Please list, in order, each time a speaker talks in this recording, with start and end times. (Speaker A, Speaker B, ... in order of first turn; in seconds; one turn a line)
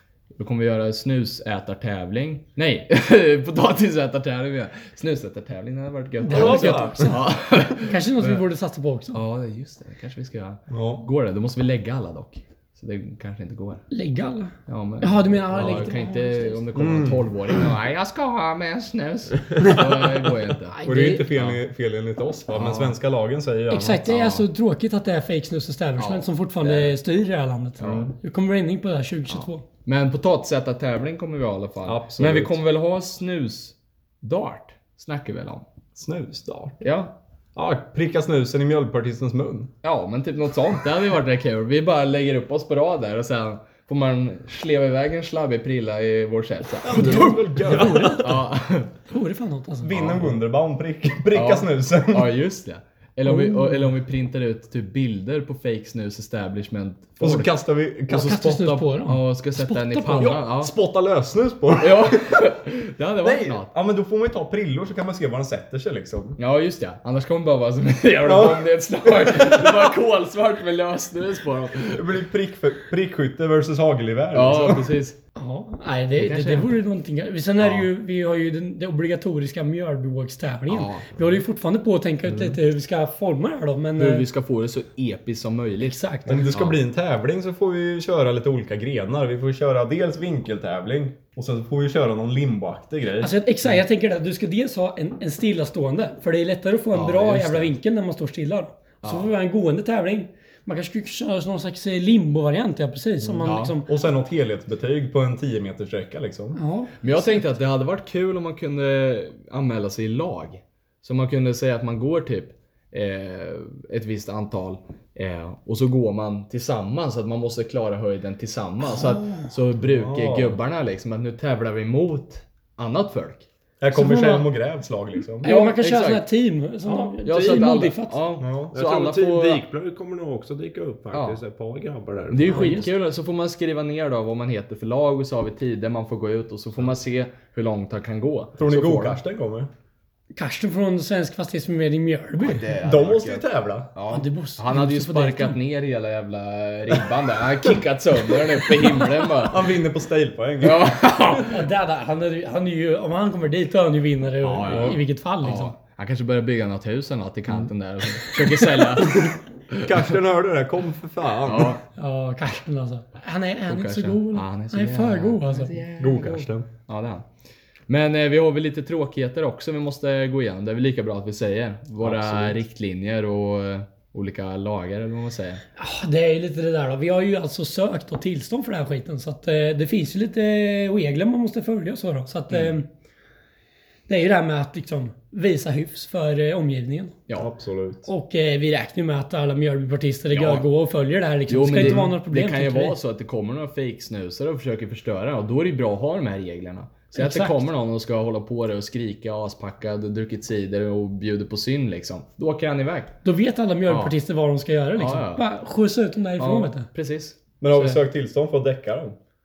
Speaker A: 0.3-8.4
Speaker B: 6.2-7.2
Speaker C: 6.3-7.2
Speaker B: 7.9-9.2
Speaker A: 9.1-13.8
Speaker C: 10.7-11.1
Speaker B: 13.9-16.6
Speaker A: 14.7-20.7
Speaker C: 16.7-17.2
Speaker D: 19.6-20.1
Speaker B: 20.7-21.2
Speaker C: 20.8-24.1
Speaker A: 21.3-21.6
Speaker A: 22.5-22.9
Speaker B: 23.7-29.6
Speaker A: 24.1-24.4
Speaker A: 26.0-26.9
Speaker A: 27.8-28.1
Speaker C: 27.8-28.1
Speaker A: 29.3-35.6
Speaker C: 31.9-32.5
Speaker C: 36.0-36.8
Speaker A: 36.8-37.1
Speaker C: 37.5-39.7
Speaker A: 39.8-48.9
Speaker C: 46.8-48.2
Speaker B: 46.9-48.4
Speaker B: 49.1-50.1
Speaker C: 49.8-52.3
Speaker A: 49.9-50.3
Speaker A: 51.3-57.5
Speaker B: 53.2-53.9
Speaker C: 57.2-58.6
Speaker B: 58.1-60.3
Speaker A: 58.1-60.7
Speaker C: 60.0-62.3
Speaker A: 61.8-63.7
Speaker C: 63.2-66.4
Speaker A: 66.4-72.0
Speaker C: 68.2-70.0
Speaker C: 71.8-74.8
Speaker A: 74.3-75.2
Speaker B: 75.3-84.2
Speaker A: 76.2-76.8
Speaker A: 77.6-77.9
Speaker A: 80.7-81.3
Speaker A: 84.0-86.0
Speaker B: 85.8-86.5
Speaker C: 86.2-93.3
Speaker A: 86.5-86.8
Speaker B: 93.2-103.9
Speaker A: 96.9-97.7
Speaker A: 99.0-99.3
Speaker C: 103.2-106.6
Speaker A: 103.4-103.7
Speaker B: 106.5-107.4
Speaker A: 107.0-123.5
Speaker C: 119.8-120.6
Speaker C: 123.8-125.5
Speaker B: 123.9-124.4
Speaker A: 125.4-126.2
Speaker B: 125.4-128.2
Speaker D: 126.8-127.4
Speaker A: 127.2-129.6
Speaker C: 128.4-128.7
Speaker D: 128.7-132.8
Speaker A: 131.1-131.4
Speaker A: 132.3-139.2
Speaker B: 132.4-132.9
Speaker C: 138.6-139.7
Speaker B: 140.3-142.7
Speaker A: 142.4-149.7
Speaker C: 142.8-143.9
Speaker B: 144.1-145.6
Speaker C: 148.6-151.4
Speaker A: 150.6-151.7
Speaker B: 151.5-155.7
Speaker A: 154.4-160.1
Speaker C: 154.7-155.0
Speaker C: 158.6-161.8
Speaker A: 161.4-161.8
Speaker B: 161.9-165.8
Speaker A: 163.7-167.2
Speaker C: 166.0-166.7
Speaker A: 167.9-175.6
Speaker C: 172.0-172.6
Speaker B: 175.8-182.9
Speaker B: 184.1-187.2
Speaker C: 187.4-188.1
Speaker B: 188.1-192.9
Speaker A: 190.3-190.6
Speaker A: 191.5-203.1
Speaker C: 191.8-192.1
Speaker B: 197.1-197.7
Speaker B: 203.2-206.9
Speaker A: 203.9-204.1
Speaker A: 205.0-205.4
Speaker A: 206.4-208.0
Speaker C: 207.6-209.2